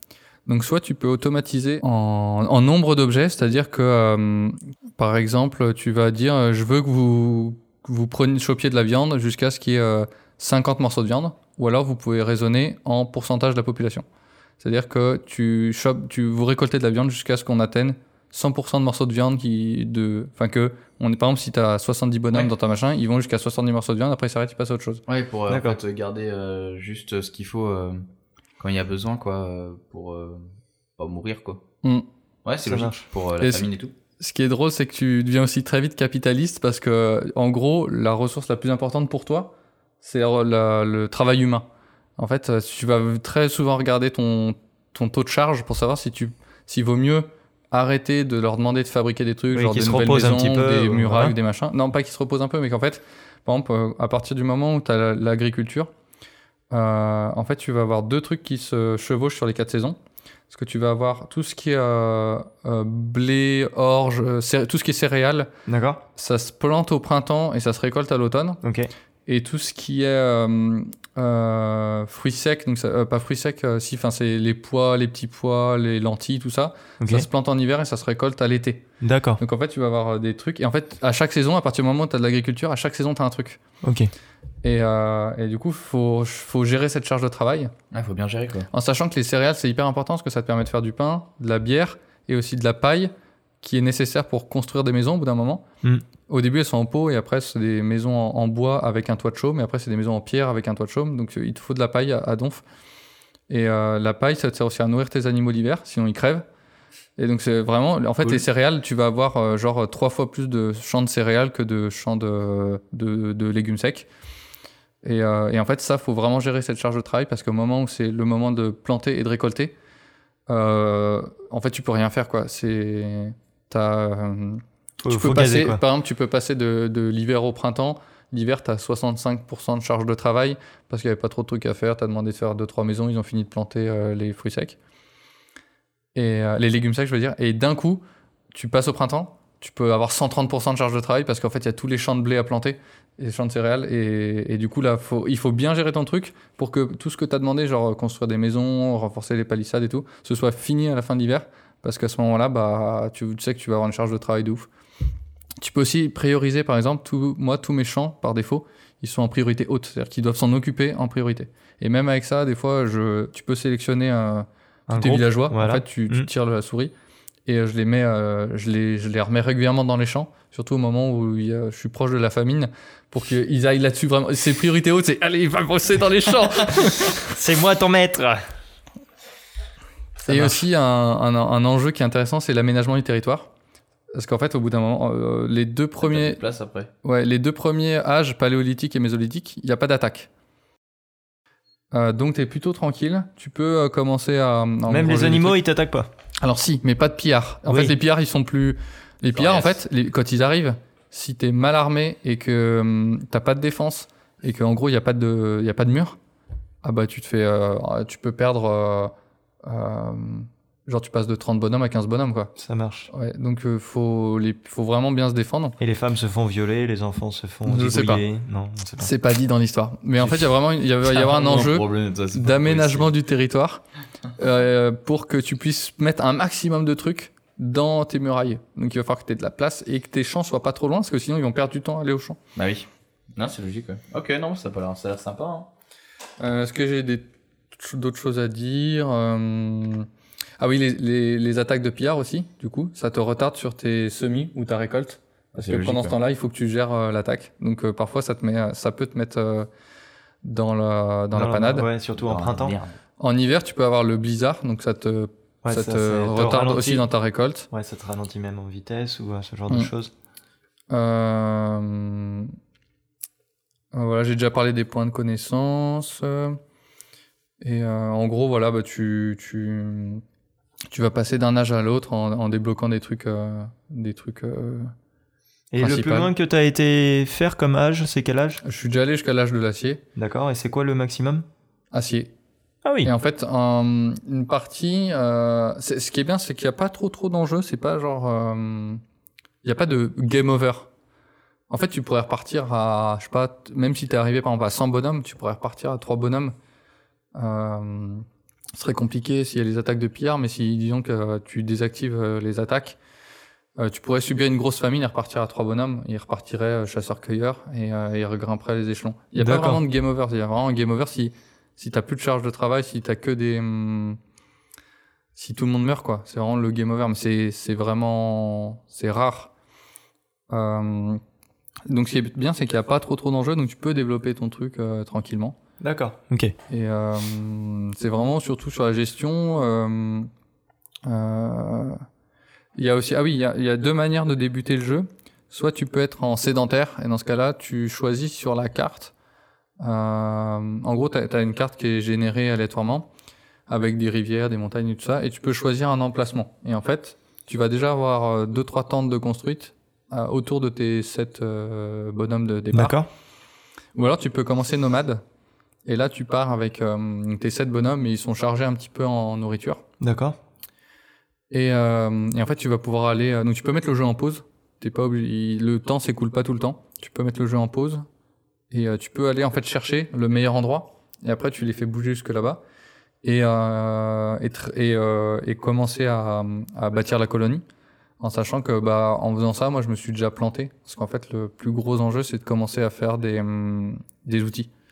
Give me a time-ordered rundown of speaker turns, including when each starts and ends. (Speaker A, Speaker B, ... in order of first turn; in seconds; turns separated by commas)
Speaker A: 0.5-14.0, Speaker A: 14.6-25.0, Speaker B: 25.1-28.0, Speaker C: 25.5-25.8, Speaker B: 28.6-31.6, Speaker B: 32.4-33.9, Speaker C: 32.6-33.0, Speaker A: 33.4-33.7, Speaker A: 34.2-55.9, Speaker C: 49.5-51.4, Speaker A: 56.7-60.0, Speaker A: 60.5-65.5, Speaker C: 65.7-66.0, Speaker A: 66.2-68.6, Speaker C: 68.6-68.9, Speaker A: 69.3-78.8, Speaker C: 77.0-77.3, Speaker C: 79.0-79.4, Speaker A: 79.4-83.6, Speaker C: 83.8-84.1, Speaker A: 84.6-87.7, Speaker B: 87.9-88.7, Speaker A: 88.7-95.7, Speaker A: 96.3-102.6, Speaker A: 103.5-106.4, Speaker A: 107.2-114.1, Speaker A: 115.0-119.7, Speaker A: 120.5-134.8, Speaker C: 125.0-125.8, Speaker A: 136.1-154.7, Speaker A: 155.6-166.9, Speaker C: 164.9-166.3, Speaker A: 167.5-177.2, Speaker C: 177.1-178.4, Speaker C: 180.2-180.6, Speaker A: 180.2-183.5, Speaker A: 184.1-186.4, Speaker B: 186.0-186.9, Speaker A: 187.0-190.3, Speaker A: 191.9-195.6, Speaker C: 194.9-196.1, Speaker A: 196.4-206.2, Speaker C: 197.7-197.9, Speaker B: 199.3-199.8, Speaker A: 206.8-209.1, Speaker A: 209.6-212.5, Speaker C: 212.6-213.1, Speaker A: 213.1-215.8, Speaker C: 215.8-219.1, Speaker A: 217.7-218.2, Speaker A: 219.0-223.8, Speaker B: 221.1-223.1, Speaker A: 224.4-232.4, Speaker B: 232.6-235.7, Speaker A: 236.4-240.1, Speaker A: 240.6-249.7, Speaker B: 245.6-246.2, Speaker A: 250.4-251.9, Speaker C: 251.3-252.8, Speaker B: 252.2-252.9, Speaker A: 253.2-257.7, Speaker C: 255.6-257.1, Speaker C: 257.7-260.1, Speaker A: 260.9-262.5, Speaker A: 263.9-266.6, Speaker A: 267.6-270.2, Speaker A: 270.9-274.9, Speaker C: 275.7-278.6, Speaker A: 275.8-276.3, Speaker A: 278.6-280.0, Speaker C: 280.1-281.4, Speaker A: 281.9-282.3, Speaker C: 282.8-283.1, Speaker A: 283.0-289.0, Speaker A: 289.6-290.9, Speaker A: 291.7-296.5, Speaker A: 297.3-298.2, Speaker A: 298.8-303.0, Speaker A: 303.8-314.2, Speaker C: 309.4-309.8, Speaker A: 315.4-319.5, Speaker A: 320.5-321.2, Speaker A: 321.9-325.6, Speaker C: 325.8-326.5, Speaker A: 326.7-330.3, Speaker A: 331.0-332.0, Speaker A: 332.8-339.1, Speaker A: 339.8-343.1, Speaker A: 343.7-353.0, Speaker C: 352.7-353.1, Speaker A: 353.9-355.2, Speaker A: 355.8-359.8, Speaker C: 360.0-360.4, Speaker A: 361.5-368.0, Speaker A: 368.7-372.6, Speaker A: 373.2-377.6, Speaker A: 378.2-384.7